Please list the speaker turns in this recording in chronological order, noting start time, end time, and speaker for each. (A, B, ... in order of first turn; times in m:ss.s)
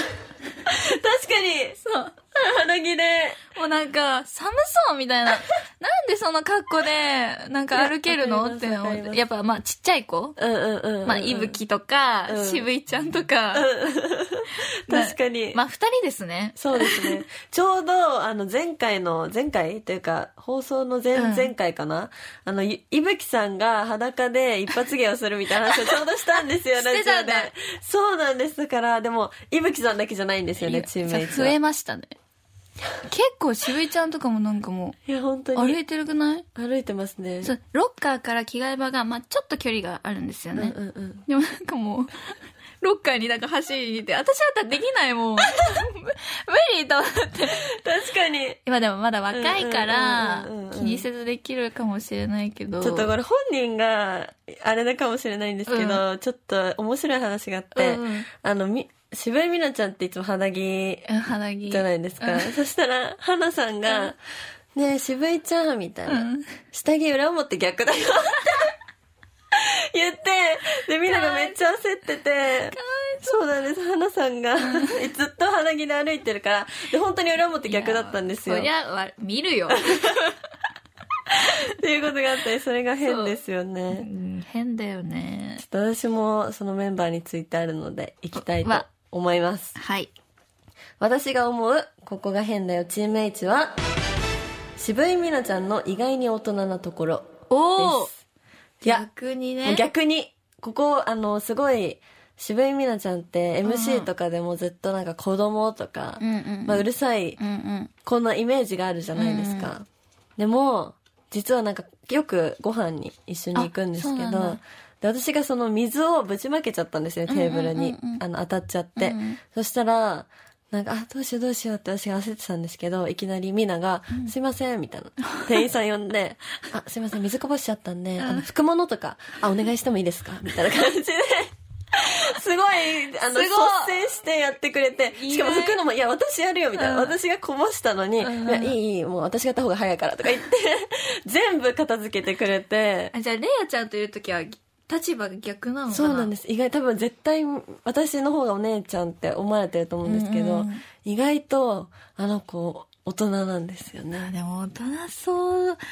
0:00.7-0:01.8 A
0:01.8-0:02.1 B
0:02.3-0:03.4 A
0:03.5-0:10.4 B
0:07.7-0:09.2 A
0:10.4-0:11.6 A
0:11.0-0:13.7 B
0:12.3-0:12.7 A
0:13.5-0:15.6 A
0:14.9-0:17.2 B
0:16.6-0:31.5 A
0:21.1-0:21.5 B
0:26.7-0:27.5 B
0:30.6-0:32.1 B
0:33.0-0:35.0 B
0:35.0-0:35.8 A
0:35.5-0:36.4 B
0:36.5-0:37.5 A
0:37.4-0:47.6 B
0:40.5-0:41.2 A
0:47.8-0:48.6 A
0:48.6-0:53.1 B
0:49.3-0:51.0 A
0:52.8-1:01.1 A
0:55.7-0:56.0 B
0:57.7-0:58.3 B
1:01.1-1:02.6 B
1:01.7-1:04.2 A
1:03.8-1:04.1 B
1:04.7-1:08.7 A
1:06.0-1:06.5 B
1:09.5-1:18.7 A
1:11.1-1:11.6 B
1:12.7-1:13.4 B
1:14.6-1:15.0 B
1:17.6-1:20.3 B
1:21.8-1:24.1 A
1:23.0-1:23.4 B
1:23.9-1:25.6 B
1:25.6-1:29.8 A
1:28.3-1:28.8 B
1:29.8-1:30.1 B
1:31.0-1:33.7 A
1:34.8-1:38.2 A
1:37.5-1:38.1 B
1:38.8-1:39.9 B
1:39.6-1:47.4 A
1:43.6-1:44.1 B
1:46.2-1:46.8 B
1:47.4-1:47.9 B
1:48.0-1:49.8 A
1:49.1-1:49.7 B
1:50.4-2:11.5 A
1:53.5-1:54.6 B
1:57.3-1:58.2 B
1:59.0-1:59.4 B
2:05.2-2:05.5 B
2:08.2-2:08.5 B
2:12.1-2:23.1 A
2:13.3-2:13.9 B
2:15.1-2:15.8 B
2:16.7-2:17.2 B
2:18.2-2:18.8 B
2:23.1-2:26.3 B
2:25.9-2:34.3 A
2:30.0-2:30.8 B
2:34.2-2:35.8 B